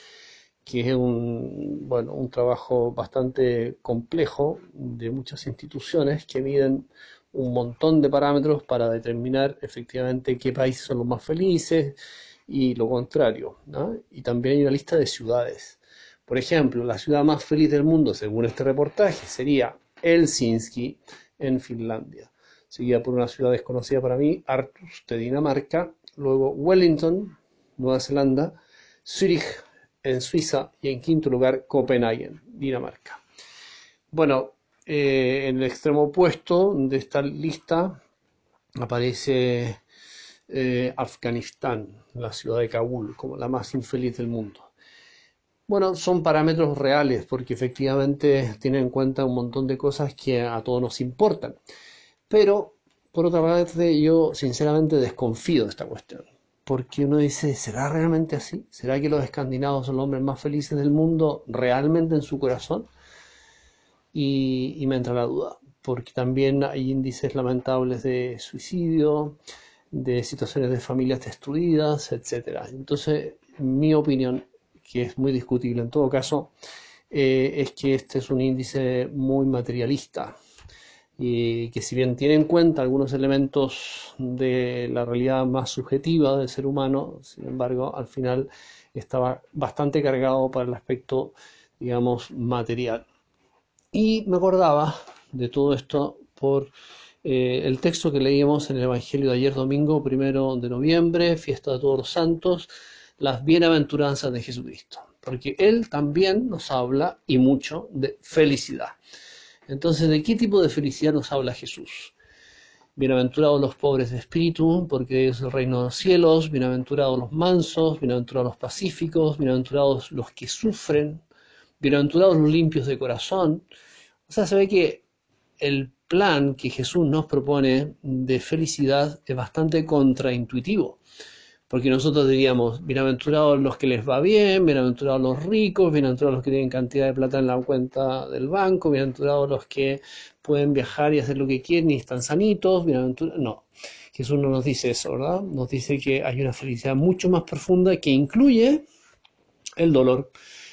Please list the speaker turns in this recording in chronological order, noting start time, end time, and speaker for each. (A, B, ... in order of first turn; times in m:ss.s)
0:00.6-0:12.0 A
0:12.5-0:33.2 A
0:34.1-0:38.0 A
0:38.8-0:39.8 A
0:40.5-0:44.7 A
0:45.7-0:51.6 A
0:52.3-1:02.9 A
1:04.1-1:09.4 A
1:09.9-1:16.5 A
1:17.1-1:20.3 A
1:21.2-1:33.0 A
1:33.9-1:36.7 A
1:37.2-1:49.0 A
1:49.7-1:52.1 A
1:53.0-2:01.2 A
2:01.8-2:03.6 A
2:04.3-2:05.0 A
2:05.6-2:11.0 A
2:11.7-2:28.8 A
2:29.8-2:30.3 A